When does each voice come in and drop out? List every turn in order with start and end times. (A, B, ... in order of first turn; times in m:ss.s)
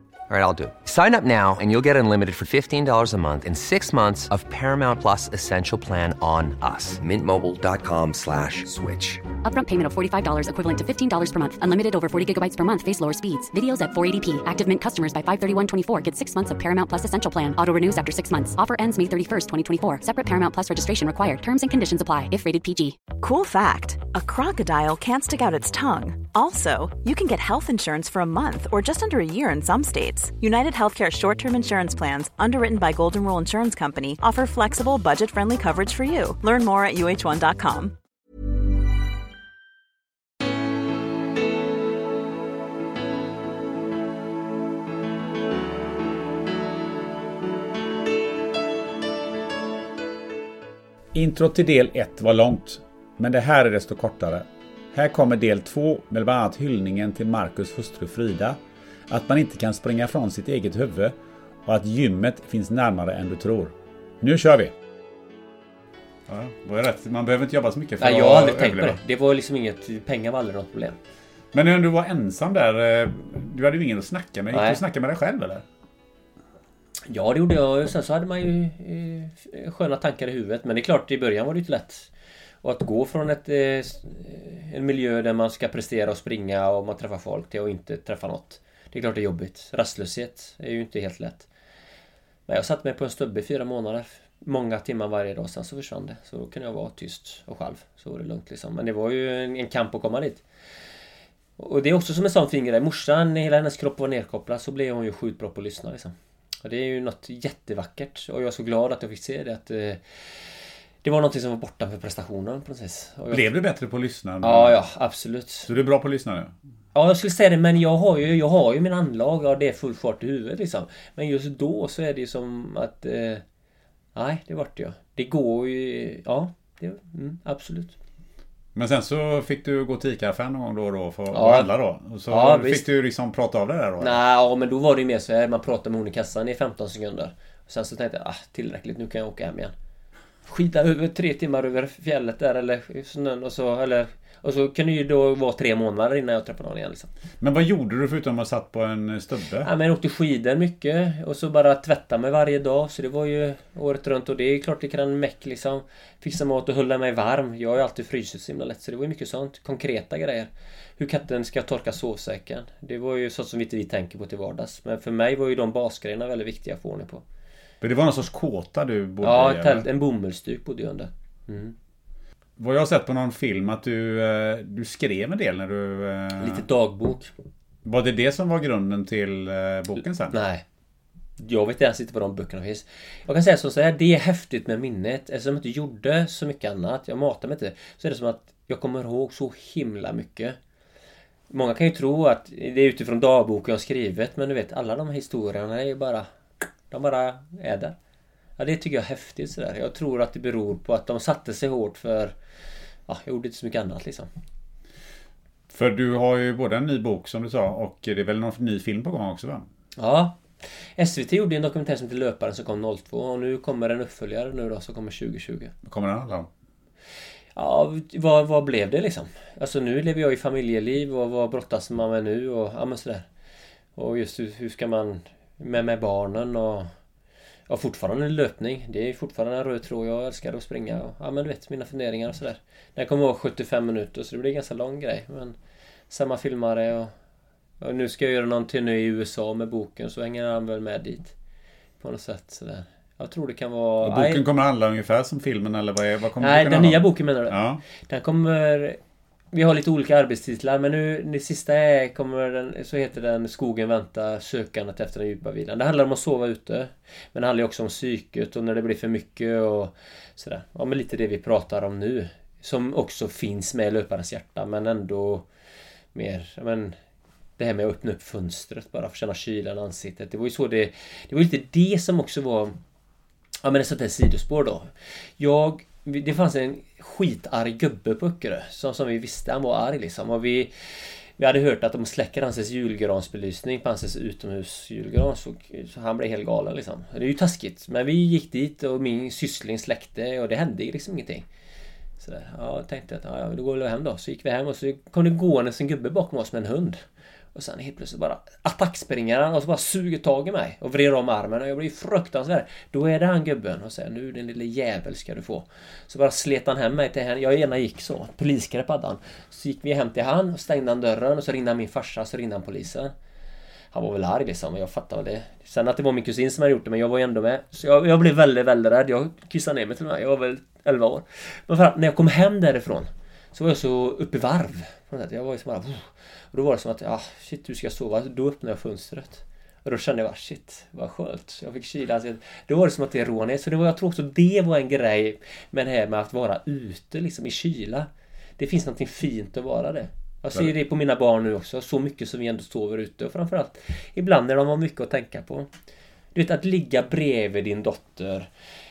0:00.3-0:09.2 A
0:09.4-0:23.0 B
0:23.1-0:37.9 C
0:51.1-1:04.7 D
1:06.3-1:09.0 D
1:08.0-1:11.0 E
1:11.5-1:15.6 D
1:14.5-1:14.8 E
1:17.1-1:22.1 E
1:22.6-1:31.5 E
1:32.5-1:40.4 E
1:41.6-1:50.0 E
1:51.0-1:53.4 E
1:53.3-1:54.8 D
1:54.4-1:55.7 E
1:55.6-1:56.5 D
1:56.9-2:03.4 E
2:04.1-2:07.9 E
2:08.7-2:14.2 D
2:11.3-2:11.7 E
2:12.3-2:12.8 E
2:14.0-2:19.7 E
2:20.5-2:27.1 E
2:27.4-2:29.7 D
2:29.6-2:47.2 E
2:47.8-2:49.9 D
2:49.2-2:51.7 E
2:52.6-2:56.6 D
2:56.4-2:57.3 E
2:57.8-3:00.4 D
3:00.3-3:00.6 E
3:01.4-3:10.6 E
3:11.5-3:16.2 E
3:16.9-3:17.9 E
3:18.6-3:22.3 E
3:23.1-3:24.3 E
3:25.7-3:29.7 D
3:30.0-3:30.4 E
3:31.0-3:35.7 E
3:35.8-3:36.5 D
3:37.6-3:43.2 E
3:44.0-3:46.9 E
3:47.7-3:55.6 E
3:56.1-3:57.1 E
3:57.8-4:01.3 E
4:02.0-4:04.4 E
4:04.0-4:07.8 D
4:06.4-4:09.0 E
4:09.5-4:25.4 E
4:26.1-4:26.9 E
4:27.6-4:32.7 E
4:33.6-4:40.7 E
4:41.4-4:51.4 E
4:52.2-4:57.0 E
4:57.5-5:13.1 E
5:13.9-5:45.7 E
5:46.3-5:48.5 E